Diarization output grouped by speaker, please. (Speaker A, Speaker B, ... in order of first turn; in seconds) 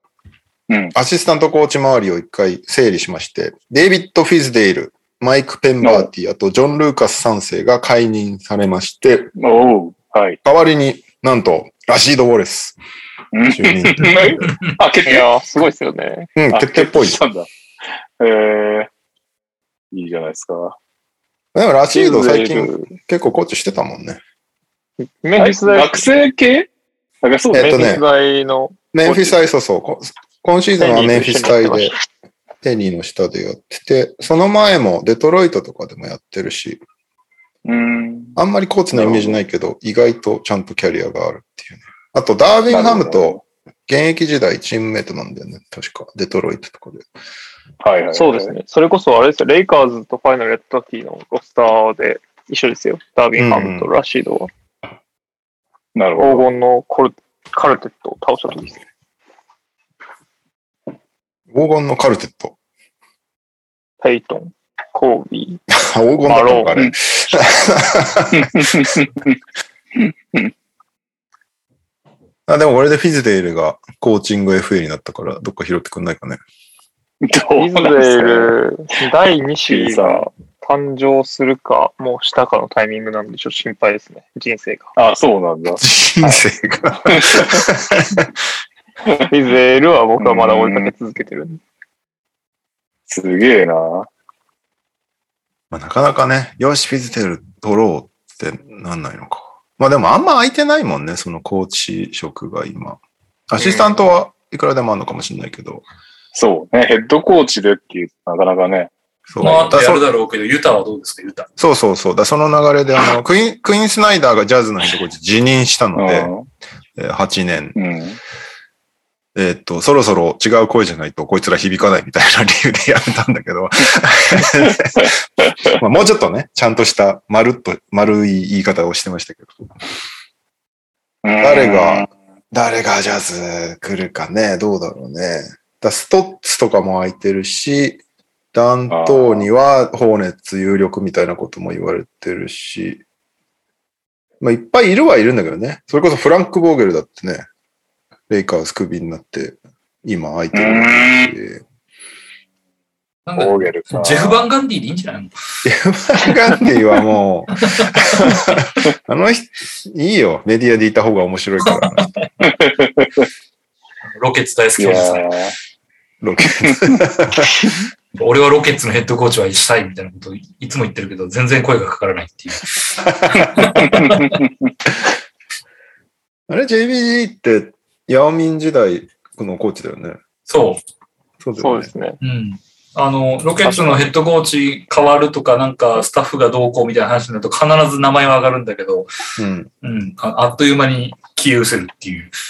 Speaker A: 0.7-0.9, 5.8-6.1, 9.4-10.4, 13.3-15.3, 16.5-17.5, 18.2-18.9, 19.9-20.8, 25.4-26.7, 27.2-27.9, 37.6-38.4, 38.9-39.4, 42.7-43.4, 47.8-48.5, 56.0-56.5, 68.4-69.3, 70.0-70.5, 77.2-78.5, 79.7-80.2, 85.0-86.4, 87.1-87.6, 90.2-90.9, 93.1-94.1, 106.3-108.9, 116.0-116.5, 117.8-118.2, 131.2-132.1, 138.9-139.4, 150.5-151.3, 153.4-154.4, 162.4-163.3, 164.8-165.5, 166.6-167.0, 173.7-174.5
Speaker B: 0.9-9.3, 10.4-12.8, 13.4-14.5, 16.4-17.2, 21.5-24.2, 27.5-28.0, 28.9-31.9, 32.6-36.8, 38.4-47.1, 53.4-53.9, 61.5-62.5, 65.7-68.8, 72.5-76.4, 85.8-88.3, 95.7-105.8, 109.3-110.0, 111.6-116.3, 117.0-117.8, 119.3-125.1, 125.6-129.6, 131.4-138.0, 138.5-143.0, 144.4-147.4, 148.3-151.6, 155.6-162.1, 166.2-167.7, 173.1-173.7, 176.5-180.2, 181.4-181.9, 189.4-189.7
Speaker C: 15.1-16.3, 21.9-22.9, 25.2-26.0, 27.5-29.3, 30.8-32.0, 48.1-54.5, 56.2-58.8, 64.0-65.6, 66.2-66.9, 77.6-84.9, 89.3-91.6, 181.6-182.2, 183.6-184.0
Speaker D: 109.4-111.5, 153.3-155.3, 161.7-162.0, 164.2-165.3, 168.1-174.4, 180.5-180.8, 182.2-189.1, 189.8-192.3